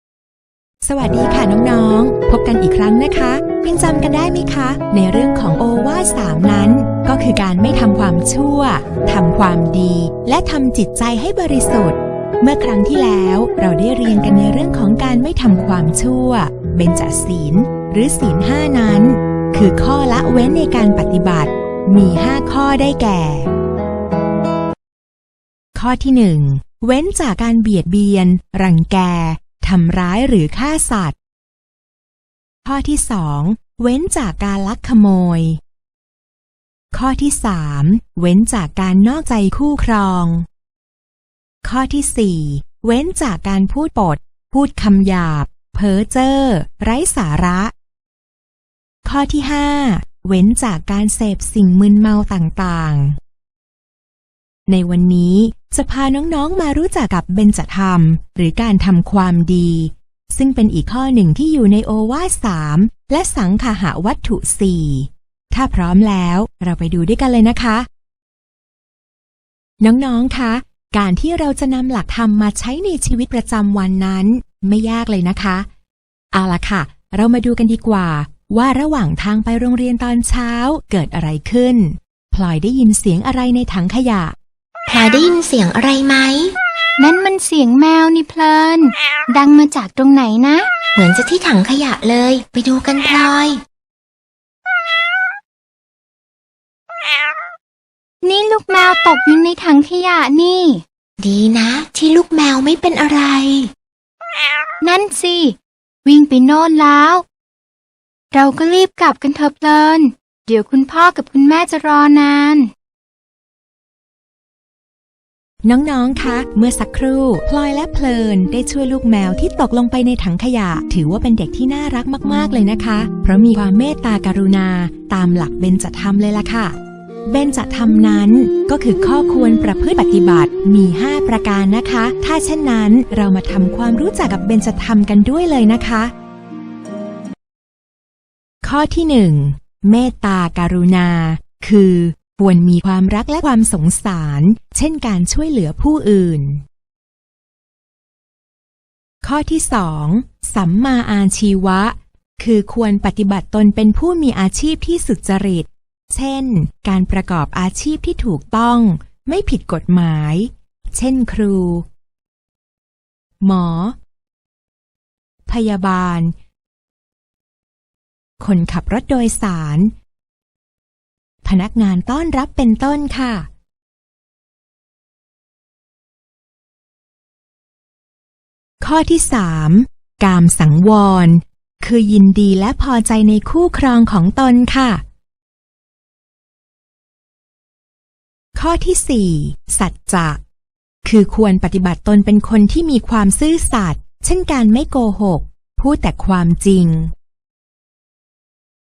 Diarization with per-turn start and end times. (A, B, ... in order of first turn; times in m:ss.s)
0:00.8-0:23.5 A
0:25.7-0:31.2 A
0:32.6-0:35.6 A
0:36.9-0:40.4 A
0:41.6-0:47.7 A
0:49.0-0:53.2 A
0:54.7-1:07.9 A
1:09.8-1:15.7 A
1:16.3-1:24.4 A
1:24.9-1:26.5 B
1:27.0-1:30.7 C
1:31.0-1:33.6 B
1:38.2-1:40.8 C
1:41.2-1:43.7 B
1:44.8-1:47.2 C
1:48.3-1:52.7 C
1:55.6-2:16.1 A
2:18.6-2:26.6 A
2:29.2-2:41.8 A
2:43.4-2:44.0 A
2:45.5-2:46.3 A
2:48.4-2:49.9 A
2:51.4-2:53.5 A
2:58.8-3:05.0 A
3:08.5-3:10.4 A
3:11.0-3:17.1 A